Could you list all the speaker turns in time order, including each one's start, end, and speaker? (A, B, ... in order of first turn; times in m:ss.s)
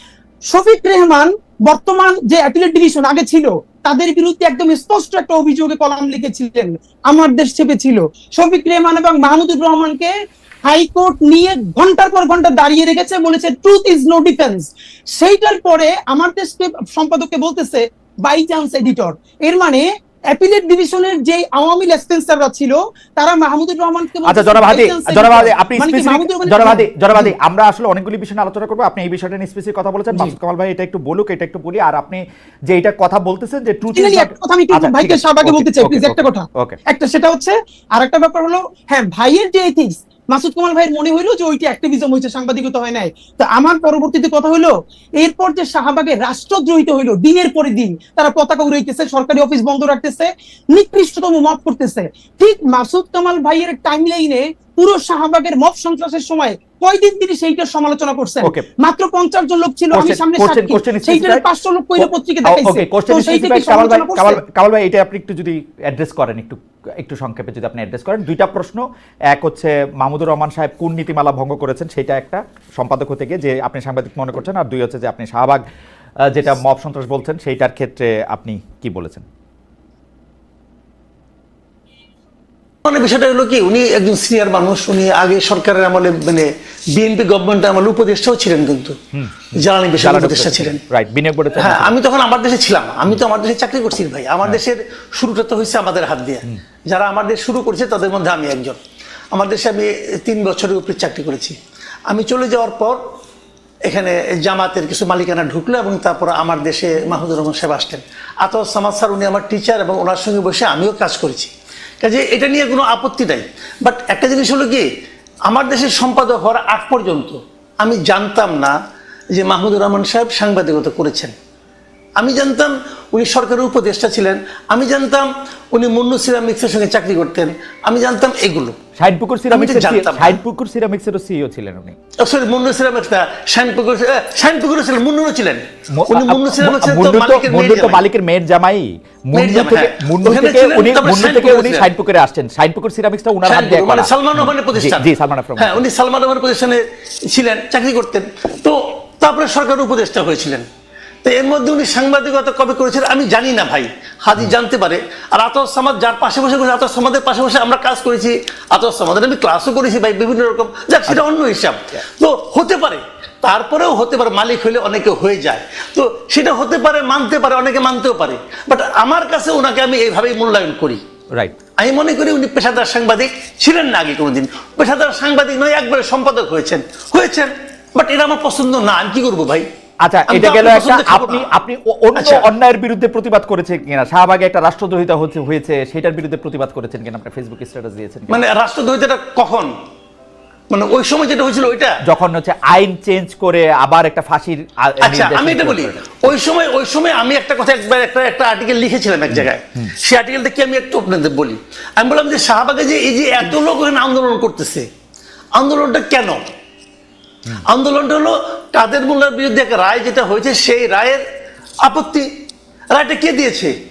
0:00.5-0:10.1 A
0:10.7-0:27.3 A
0:24.2-0:36.8 B
0:33.9-1:04.4 A
0:59.9-1:01.4 B
1:02.0-1:15.6 B
1:16.3-1:19.3 B
1:22.9-1:29.0 C
1:29.1-1:31.9 B
1:29.6-1:30.8 C
1:31.6-1:38.8 C
1:39.3-1:41.6 C
1:42.1-1:43.0 C
1:43.8-1:54.9 C
1:55.5-1:58.8 C
1:59.3-2:01.3 C
2:02.2-2:08.8 C
2:09.0-2:12.0 B
2:09.5-2:10.4 C
2:12.2-2:18.0 C
2:15.9-2:25.8 B
2:19.4-2:21.9 C
2:23.5-2:30.7 C
2:31.2-2:51.0 C
2:51.8-2:59.7 C
3:00.0-3:08.4 B
3:00.3-3:01.5 C
3:02.2-3:02.5 C
3:08.3-3:09.7 C
3:10.7-3:12.0 C
3:12.0-3:16.4 B
3:15.0-3:24.9 C
3:19.3-3:20.0 B
3:25.6-3:26.4 C
3:27.7-3:31.2 C
3:31.8-3:32.3 C
3:32.9-3:33.8 C